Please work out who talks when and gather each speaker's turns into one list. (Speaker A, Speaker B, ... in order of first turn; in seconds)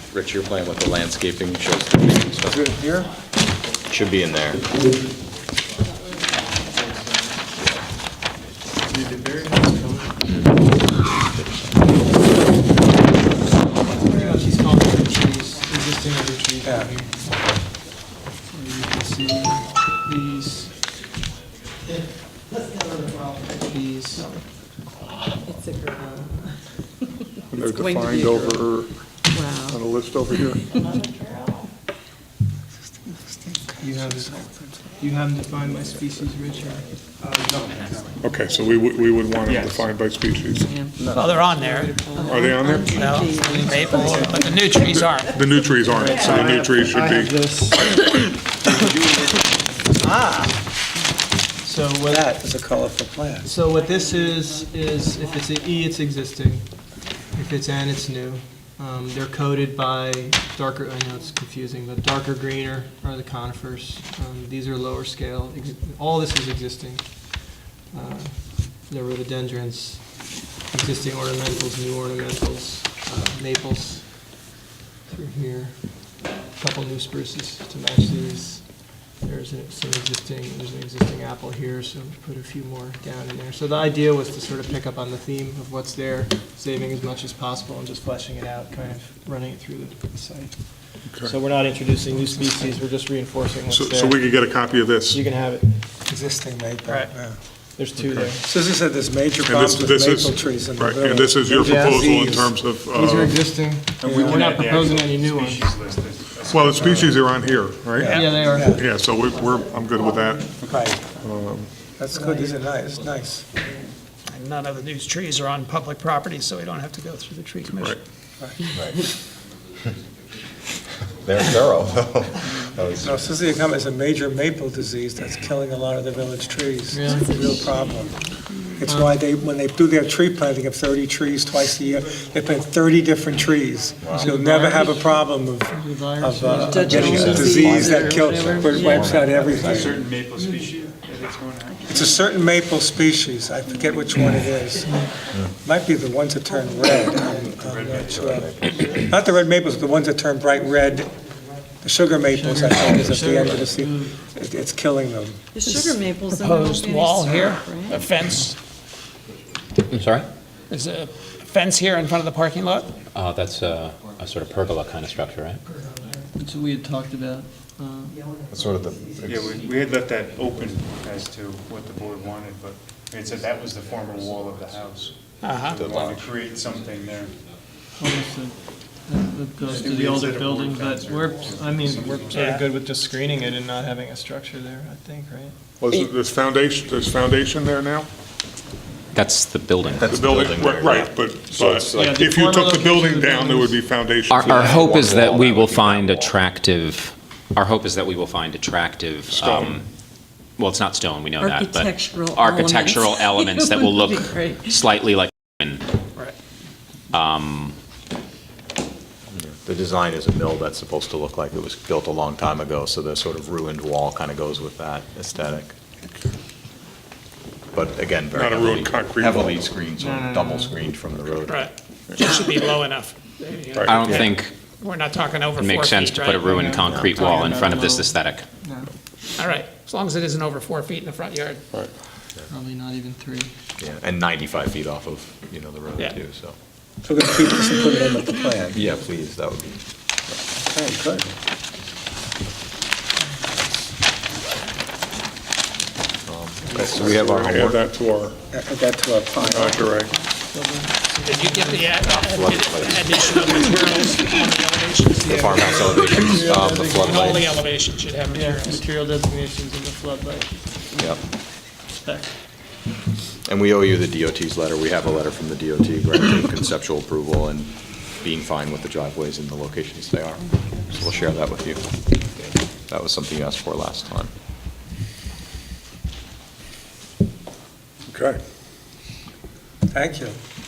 Speaker A: 0.1-2.6, 3.9-4.7, 11.0-12.0, 118.7-119.1, 121.1-123.2, 134.0-134.3, 137.0-140.0, 148.1-149.0, 168.5-169.6, 175.7-176.3, 189.9-192.2, 194.3-196.4, 209.3-215.7, 217.7-221.7, 233.8-236.6, 238.7-239.8, 246.3-247.9, 252.0-253.4, 255.2-257.5, 260.9-261.2, 263.4-271.9, 272.9-274.3
Speaker B: 2.5-3.1, 16.6-16.9, 33.1-34.9, 49.9-50.6, 52.1-53.5, 96.0-97.4, 98.4-102.5, 107.9-108.9, 110.6-111.0, 112.0-113.5, 123.0-128.2, 128.8-140.0, 141.9-144.9, 145.6-151.1, 151.8-155.4, 237.0-238.8, 240.7-241.3, 248.5-249.8, 279.9-280.4
Speaker C: 9.0-9.3, 37.2-38.2, 39.5-39.9, 104.0-107.7, 110.6-110.9, 139.4-142.2, 147.6-148.5, 169.2-175.2, 175.8-177.3, 179.6-182.6
Speaker D: 9.1-10.1, 13.9-17.3, 18.5-20.7, 22.9-24.3, 33.8-34.4, 35.0-36.9, 43.2-44.5, 45.9-48.2, 51.6-52.3, 53.4-74.4, 75.1-75.9, 76.5-94.3, 95.1-95.8, 96.9-97.1, 97.8-98.5, 101.5-102.2, 102.9-105.7, 108.0-108.8, 126.9-127.3, 128.8-129.2, 134.1-137.5, 144.8-145.1, 152.3-154.2, 166.1-168.2, 178.0-185.5, 191.9-193.8, 220.0-220.8, 226.4-228.9, 232.5-233.5, 250.4-251.9, 255.2-257.5, 258.3-261.0, 261.9-262.3
Speaker E: 13.9-14.2, 25.4-26.5, 27.7-28.6, 29.3-29.8, 40.5-41.1, 42.1-44.9, 112.2-112.5, 127.1-128.8, 136.5-139.6, 143.9-144.3, 155.5-158.1, 201.4-204.8
Speaker F: 24.1-24.4, 41.0-42.1, 42.8-45.4, 114.3-118.0, 155.6-158.6, 160.7-162.9, 175.4-175.8, 182.3-182.7, 221.5-226.7, 229.4-231.6, 251.2-258.8
Speaker G: 27.5-28.9, 29.6-30.7, 38.2-40.7, 42.2-43.1, 44.8-47.4, 91.1-91.3, 93.7-95.2, 98.0-98.3, 99.4-103.4, 106.5-111.7, 117.7-118.0, 185.8-188.1, 190.1-195.1, 199.3-199.8, 218.3-219.7, 223.7-224.1, 246.7-248.4, 249.4-250.1, 278.1-278.4
Speaker H: 159.9-160.3, 163.1-165.6, 189.1-190.0, 194.3-199.8, 200.6-205.8, 207.1-207.8, 223.8-224.5, 225.6-228.4